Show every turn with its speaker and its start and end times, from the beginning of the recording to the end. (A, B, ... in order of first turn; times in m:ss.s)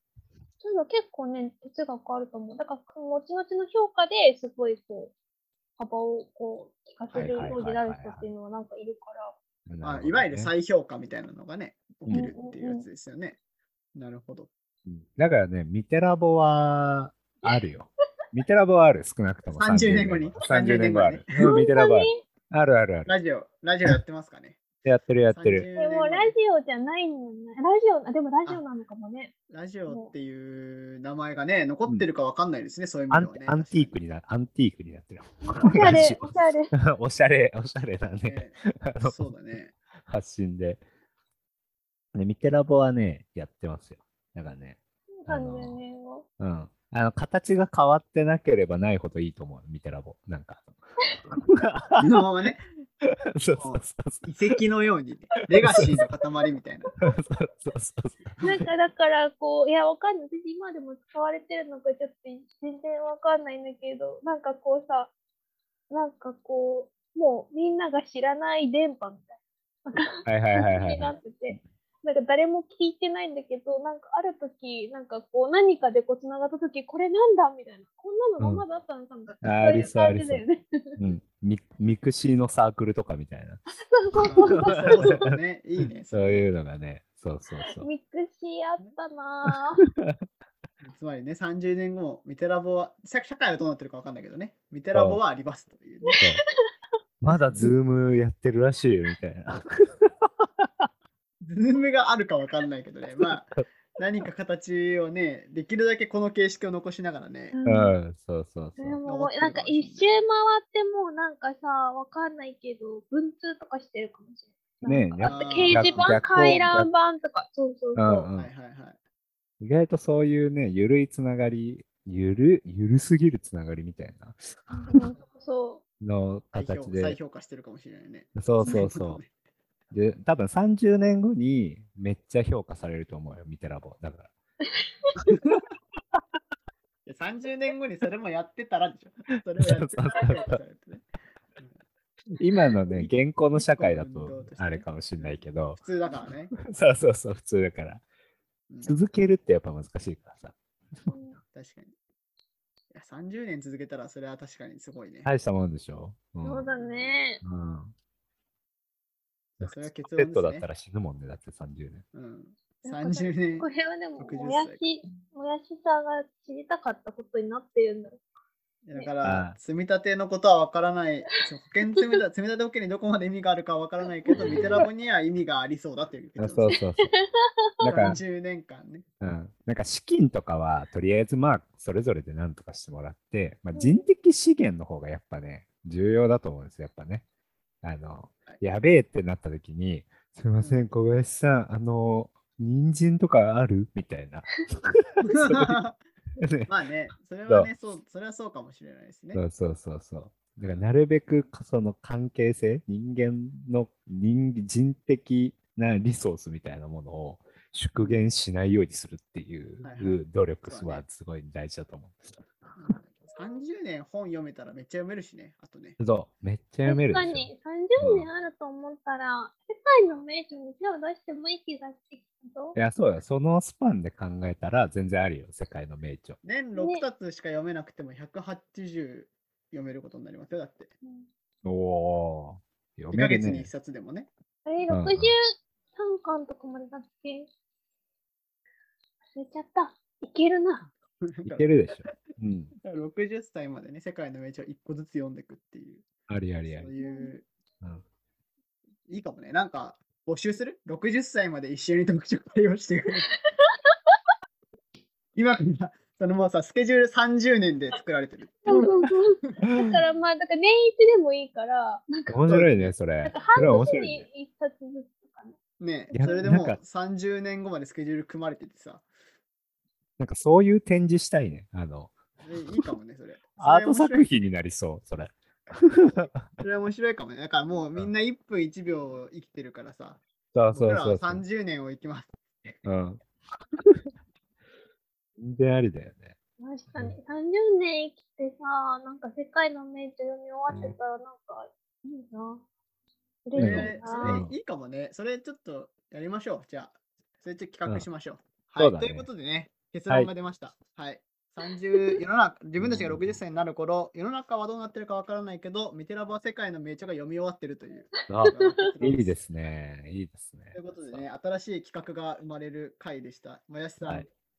0:00.6-0:05.1 A
0:05.8-0:09.4 A
0:07.1-0:08.3 B
0:09.7-0:10.5 B
0:09.8-0:13.4 C
0:12.1-0:12.9 A
0:14.0-0:14.5 C
0:14.9-0:23.1 B
0:19.5-0:21.4 C
0:21.4-0:22.2 A
0:23.1-0:24.6 C
0:24.8-0:25.7 B
0:25.3-0:26.3 C
0:25.8-0:29.3 A
0:29.5-0:34.0 C
0:29.9-0:30.1 A
0:33.1-0:39.2 B
0:35.6-0:36.7 A
0:38.3-0:39.7 C
0:40.0-0:40.8 B
0:42.1-0:45.8 B
0:45.2-0:46.3 A
0:46.4-0:50.8 B
0:51.3-0:52.2 B
0:52.0-0:52.6 C
0:53.0-0:54.6 B
0:53.6-0:56.9 C
0:55.6-0:55.8 B
0:57.0-0:58.6 B
0:58.4-1:05.1 A
1:05.9-1:21.0 A
1:10.3-1:11.6 B
1:19.4-1:20.4 B
1:21.0-1:23.6 B
1:23.8-1:25.2 A
1:24.2-1:26.5 C
1:24.2-1:25.3 B
1:26.1-1:27.9 B
1:27.7-1:29.8 A
1:30.8-1:36.2 C
1:34.9-1:35.2 B
1:36.0-1:36.7 A
1:37.2-1:40.9 B
1:41.4-1:47.6 C
1:47.5-1:48.0 A
1:47.6-1:49.0 B
1:48.8-1:58.1 A
1:49.0-1:50.2 C
1:54.8-1:56.9 B
1:55.2-1:56.7 C
1:58.0-1:58.5 B
1:58.0-1:59.0 C
1:59.6-2:05.0 B
2:04.7-2:05.8 A
2:06.0-2:07.2 B
2:06.5-2:09.3 C
2:08.4-2:09.2 B
2:09.9-2:14.3 B
2:14.8-2:15.2 A
2:15.3-2:15.6 B
2:17.1-2:21.1 C
2:19.6-2:20.6 B
2:22.4-2:25.8 B
2:22.9-2:26.6 C
2:26.6-2:28.0 B
2:28.7-2:29.0 C
2:28.8-2:31.1 B
2:31.1-2:31.4 A
2:31.5-2:32.0 C
2:32.9-2:35.3 C
2:35.2-2:36.7 B
2:36.4-2:37.4 A
2:36.8-2:37.2 C
2:37.4-2:37.9 B
2:39.6-2:40.7 C
2:39.6-2:42.0 B
2:42.1-2:44.8 C
2:42.8-2:48.2 A
2:48.8-2:56.8 C
2:49.2-2:49.6 B
2:54.3-2:54.8 A
2:54.4-2:54.9 B
2:56.4-2:57.1 B
2:56.7-2:58.2 A
2:57.8-2:58.2 B
2:57.8-2:59.0 C
2:59.2-3:07.2 B
3:03.7-3:04.1 A
3:07.8-3:15.8 B
3:10.6-3:10.9 C
3:15.2-3:16.0 C
3:16.4-3:16.7 B
3:16.7-3:19.4 C
3:19.3-3:32.2 B
3:20.6-3:20.8 C
3:29.8-3:31.0 C
3:32.8-3:36.0 C
3:36.0-3:37.5 B
3:36.8-3:42.8 A
3:38.0-3:38.3 B
3:42.8-3:46.4 B
3:46.4-3:50.9 C
3:46.8-3:47.0 A
3:51.6-3:53.7 B
3:53.1-3:54.3 C
3:54.6-3:57.5 A
3:54.9-3:55.3 B
3:59.3-4:00.9 A
4:01.2-4:02.2 C
4:01.5-4:02.7 B
4:02.8-4:06.1 C
4:06.3-4:06.9 B
4:06.7-4:07.5 C
4:07.0-4:07.3 A
4:09.1-4:13.3 C
4:13.6-4:13.9 A
4:15.4-4:19.6 C
4:18.7-4:22.4 A
4:22.3-4:24.3 B
4:22.5-4:22.9 C
4:23.2-4:25.6 A
4:25.8-4:29.0 C
4:26.1-4:26.5 A
4:26.1-4:26.8 B
4:30.2-4:32.8 B
4:32.4-4:34.3 C
4:33.6-4:36.5 B
4:36.6-4:40.2 C
4:40.5-4:41.4 B
4:40.7-4:42.8 C
4:42.8-4:43.2 B
4:45.4-4:46.4 B
4:46.6-4:52.6 A
4:50.7-4:51.0 B
4:53.5-4:54.4 A
4:53.6-5:09.4 C
4:53.6-4:54.5 B
4:58.8-4:59.3 B
5:02.8-5:03.4 B
5:08.3-5:11.2 B
5:08.5-5:08.9 A
5:10.7-5:14.3 C